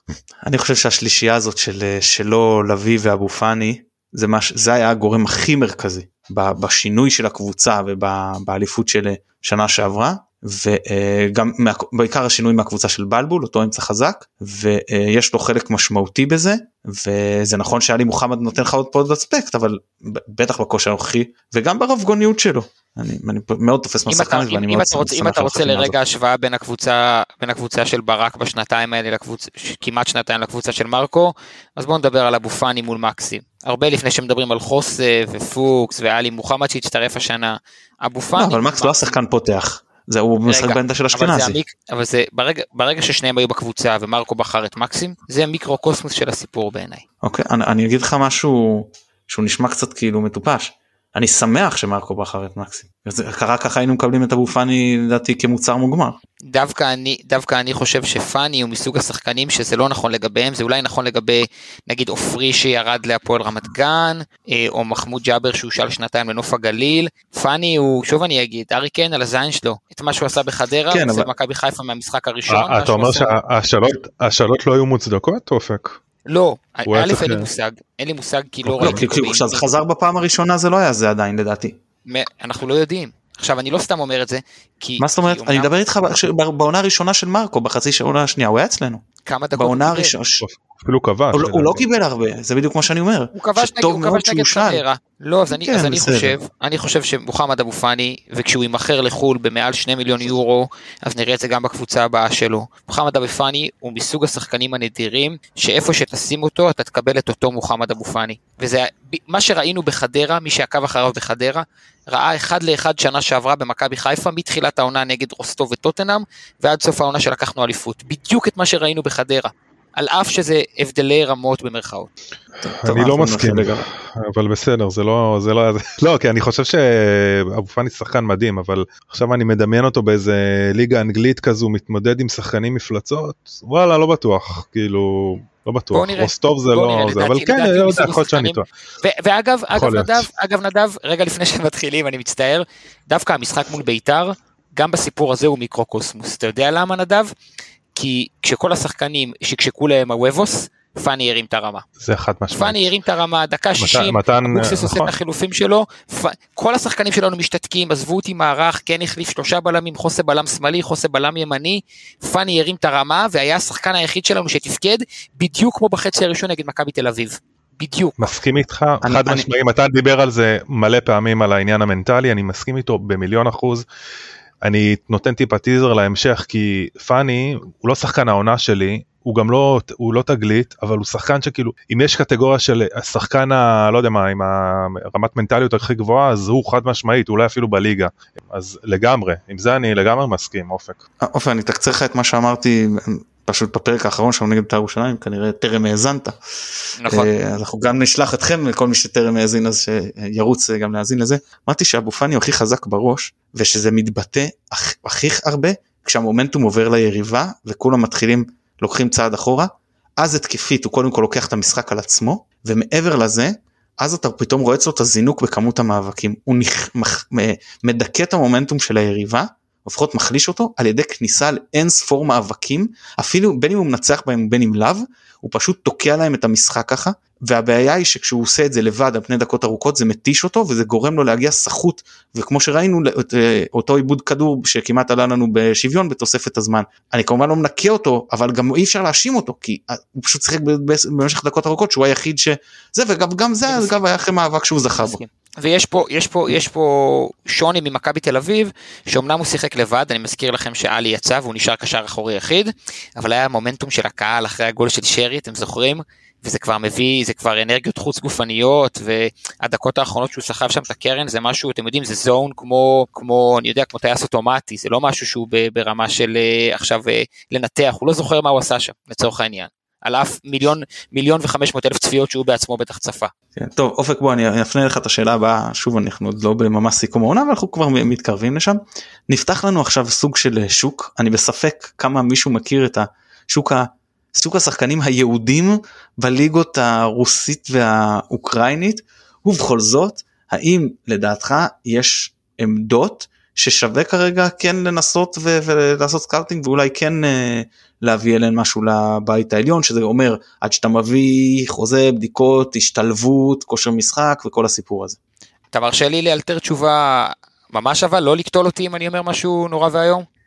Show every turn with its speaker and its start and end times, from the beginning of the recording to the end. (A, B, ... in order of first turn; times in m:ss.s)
0:00.4-0:26.0 A
0:24.1-0:39.2 B
0:38.4-0:41.6 A
0:40.5-0:47.0 B
0:47.2-0:56.2 A
0:56.5-1:13.4 B
1:10.9-1:11.3 A
1:12.5-1:16.0 C
1:16.3-1:19.7 B
1:16.9-1:17.5 C
1:18.6-1:19.0 C
1:18.8-1:21.8 A
1:22.1-1:25.7 B
1:25.0-1:30.4 A
1:29.2-1:30.1 B
1:30.4-1:31.8 C
1:31.3-1:34.8 A
1:33.4-2:02.1 B
1:35.5-1:36.4 A
2:02.6-2:03.9 A
2:02.7-2:18.6 C
2:15.9-2:27.3 B
2:19.7-2:20.3 C
2:28.0-2:31.8 B
2:32.0-2:32.9 C
2:32.5-2:48.3 B
2:33.8-2:35.1 C
2:48.2-2:53.9 C
2:49.0-2:49.5 A
2:54.6-3:11.0 C
3:11.2-3:16.4 A
3:17.0-3:17.3 B
3:17.1-4:05.2 A
4:03.6-4:04.0 B
4:05.0-4:33.3 B
4:33.6-5:05.2 A
5:05.7-5:10.2 B